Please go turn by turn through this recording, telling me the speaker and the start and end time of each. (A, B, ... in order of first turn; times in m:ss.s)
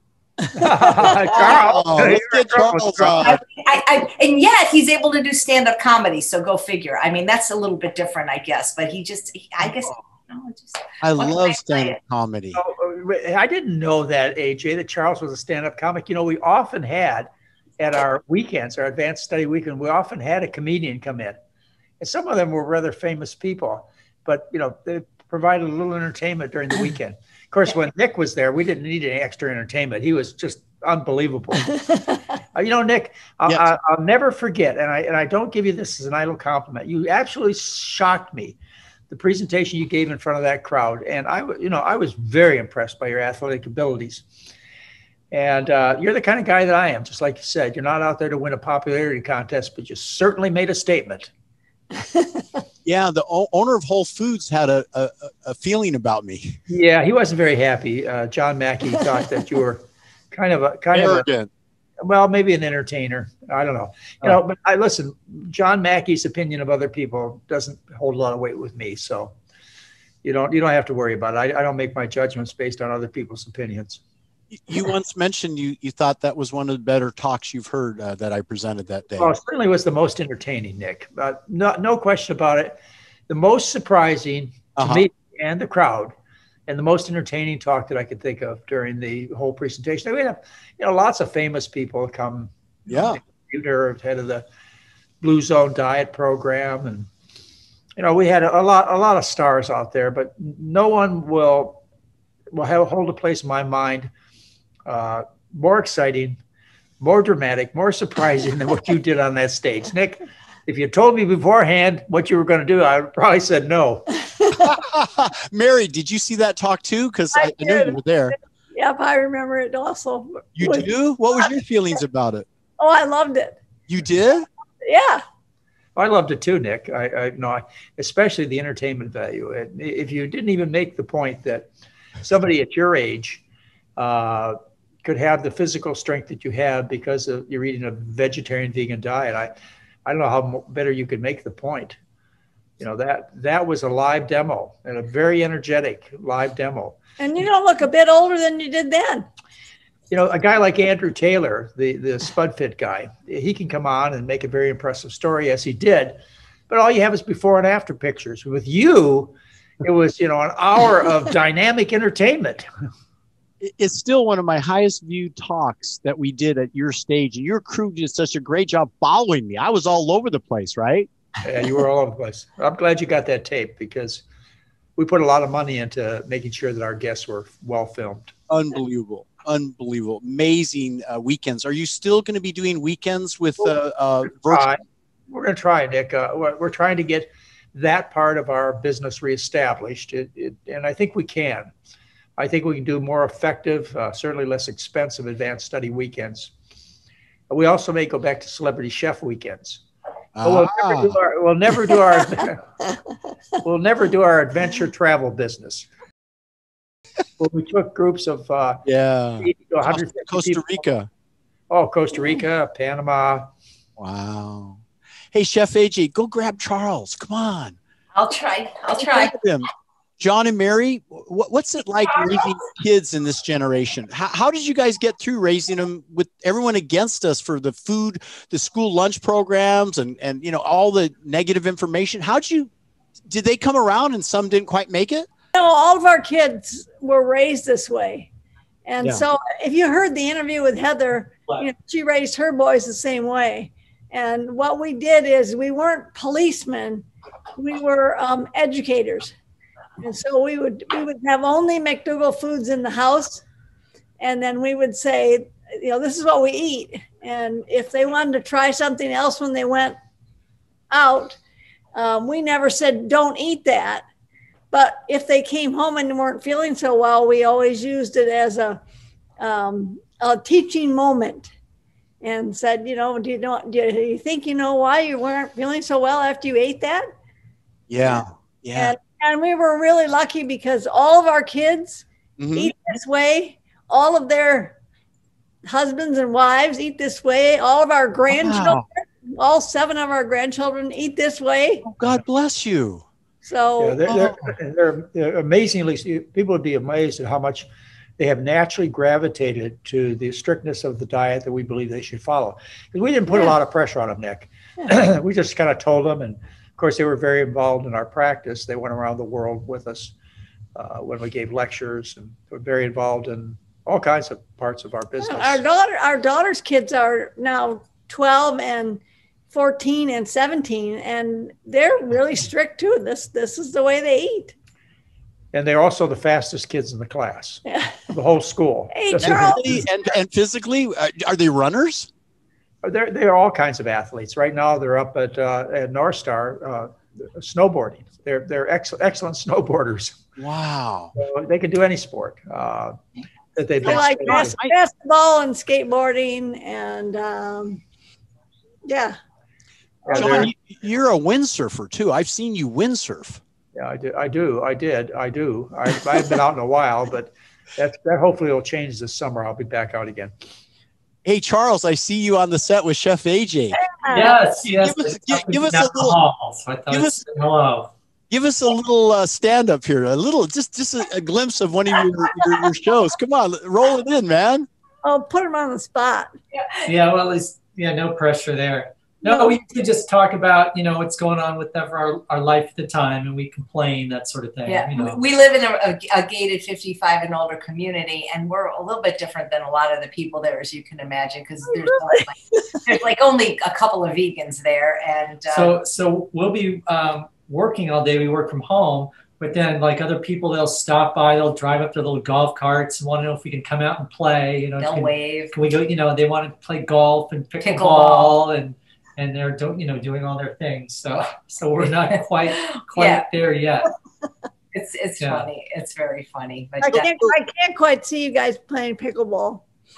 0:00.6-0:03.4 A
0:01.3-0:03.4 B
0:03.2-0:12.0 C
0:11.0-0:12.6 B
0:12.6-0:21.4 A
0:22.0-0:31.8 A
0:31.7-0:32.0 D
0:32.5-0:38.6 A
0:39.1-0:44.2 A
0:45.3-0:51.3 A
0:52.0-0:52.4 D
0:52.8-0:56.6 B
0:56.7-1:01.3 A
1:00.9-1:01.5 B
1:02.0-1:09.3 A
1:10.2-1:14.0 A
1:14.5-1:19.3 B
1:19.2-1:22.8 A
1:23.3-1:26.1 A
1:24.8-1:25.1 B
1:26.7-1:34.4 A
1:32.9-1:33.2 B
1:35.2-1:37.1 A
1:38.0-1:41.8 A
1:42.5-1:44.1 A
1:44.9-1:46.4 A
1:47.0-1:54.1 A
1:54.5-1:58.4 B
1:57.4-1:58.0 D
1:58.7-2:00.9 D
2:00.6-2:02.5 B
2:02.8-2:03.6 D
2:03.9-2:04.5 B
2:04.8-2:05.2 D
2:06.0-2:11.7 A
2:12.2-2:13.4 A
2:14.0-2:19.5 A
2:20.1-2:22.0 A
2:22.8-2:27.0 A
2:27.2-2:29.3 D
2:30.1-2:42.7 A
2:43.6-2:51.1 B
2:51.4-2:54.2 A
2:55.0-2:58.3 A
2:58.5-3:04.7 B
3:04.5-3:11.7 A
3:12.4-3:16.5 A
3:17.5-3:19.8 A
3:20.4-3:21.2 B
3:20.4-3:22.7 A
3:23.6-3:25.9 A
3:27.4-3:28.8 A
3:28.9-3:31.1 B
3:29.4-3:30.8 A
3:31.7-3:33.5 A
3:34.0-3:34.8 B
3:35.3-3:37.8 B
3:38.1-3:39.3 C
3:39.0-3:52.7 B
3:42.2-3:42.5 C
3:53.3-3:55.3 B
3:55.6-3:58.3 D
3:58.9-4:07.1 D
4:07.6-4:09.3 D
4:10.0-4:13.4 D
4:14.2-4:20.0 D
4:20.9-4:21.4 D
4:21.9-4:24.0 D
4:24.7-4:28.8 D
4:29.4-4:31.5 D
4:32.2-4:37.1 D
4:37.9-4:39.0 B
4:38.8-4:42.0 D
4:42.4-4:42.7 B
4:42.6-4:44.8 D
4:45.7-4:51.9 D
4:48.3-4:48.9 B
4:51.8-4:53.0 B
4:53.4-4:54.3 D
4:53.8-5:10.1 A
5:10.8-5:15.6 A
5:15.2-5:24.5 D
5:25.5-5:29.8 A
5:27.6-5:28.1 D
5:28.9-5:29.6 D
5:29.2-5:32.1 B
5:32.8-5:40.2 A
5:40.4-5:41.2 B
5:41.2-5:43.0 A
5:43.6-5:44.6 A
5:43.8-5:47.8 D
5:43.8-5:44.8 B
5:48.9-5:49.2 D
5:50.0-5:50.5 A
5:50.1-5:53.4 B
5:53.8-6:00.3 A
6:01.2-6:03.8 B
6:03.8-6:04.4 D
6:04.1-6:07.9 E
6:04.8-6:06.2 B
6:06.9-6:07.2 B
6:08.3-6:14.7 B
6:15.0-6:16.3 D
6:16.5-6:16.9 C
6:16.9-6:25.2 E
6:24.7-6:35.7 C
6:31.8-6:32.8 D
6:35.5-6:53.9 E
6:44.8-6:45.5 C
6:47.6-6:48.4 C
6:52.1-6:53.3 C
6:54.7-6:57.1 C
6:55.2-6:55.5 E
6:56.8-6:57.4 B
6:56.9-6:59.6 D